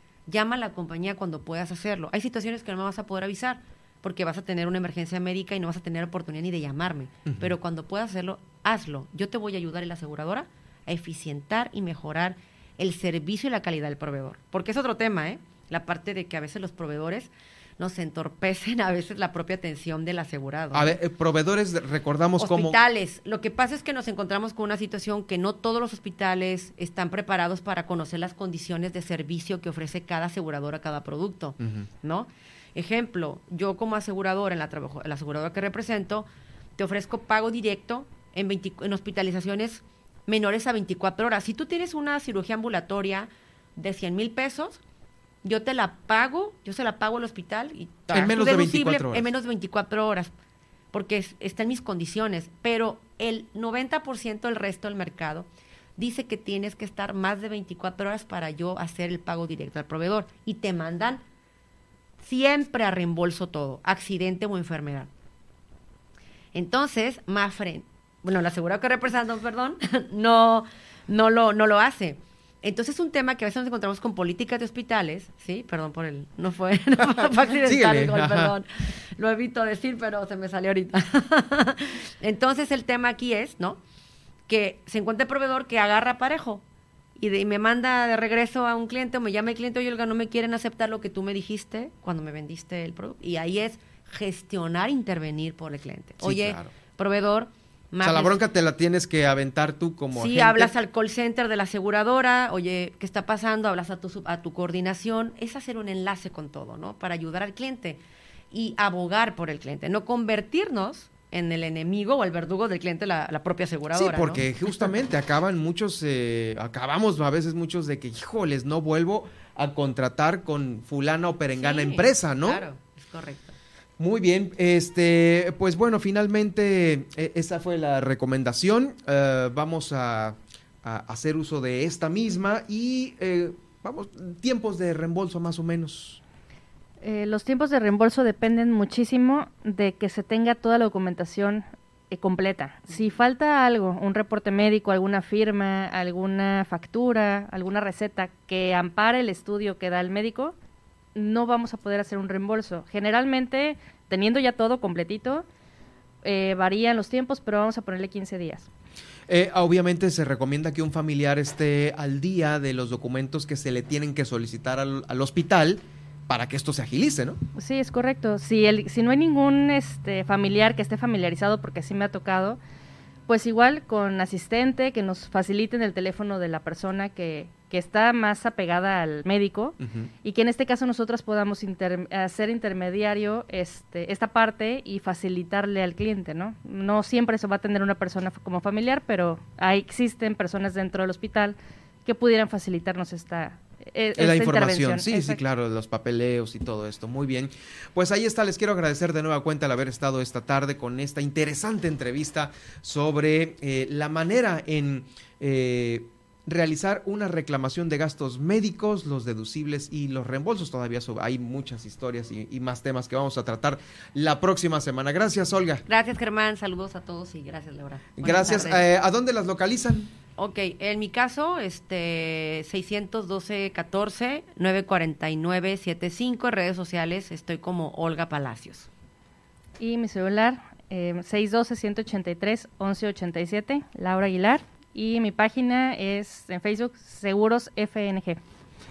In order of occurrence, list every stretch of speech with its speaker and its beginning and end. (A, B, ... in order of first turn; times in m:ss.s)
0:00.3-0:21.0 A
0:07.3-0:07.5 B
0:20.7-0:22.8 B
0:22.4-0:36.3 A
0:31.6-0:31.9 B
0:36.8-0:44.8 A
0:45.4-0:50.3 A
0:48.1-0:49.3 B
0:50.9-1:01.2 A
1:02.2-1:05.1 A
1:06.5-1:23.8 A
1:17.0-1:18.6 B
1:24.5-1:26.6 A
1:27.2-1:38.4 A
1:36.2-1:36.7 B
1:38.0-1:40.7 B
1:40.1-1:54.5 A
1:53.9-2:02.6 B
2:01.6-2:03.6 A
2:04.0-2:16.2 B
2:17.0-2:30.6 C
2:31.2-2:35.5 C
2:36.2-2:38.7 C
2:39.3-2:47.4 B
2:47.6-2:52.6 C
2:53.3-3:15.4 C
2:59.8-3:00.1 B
3:14.2-3:35.8 B
3:35.9-3:38.8 A
3:38.2-3:40.1 B
3:40.4-3:48.9 A
3:49.8-3:58.4 C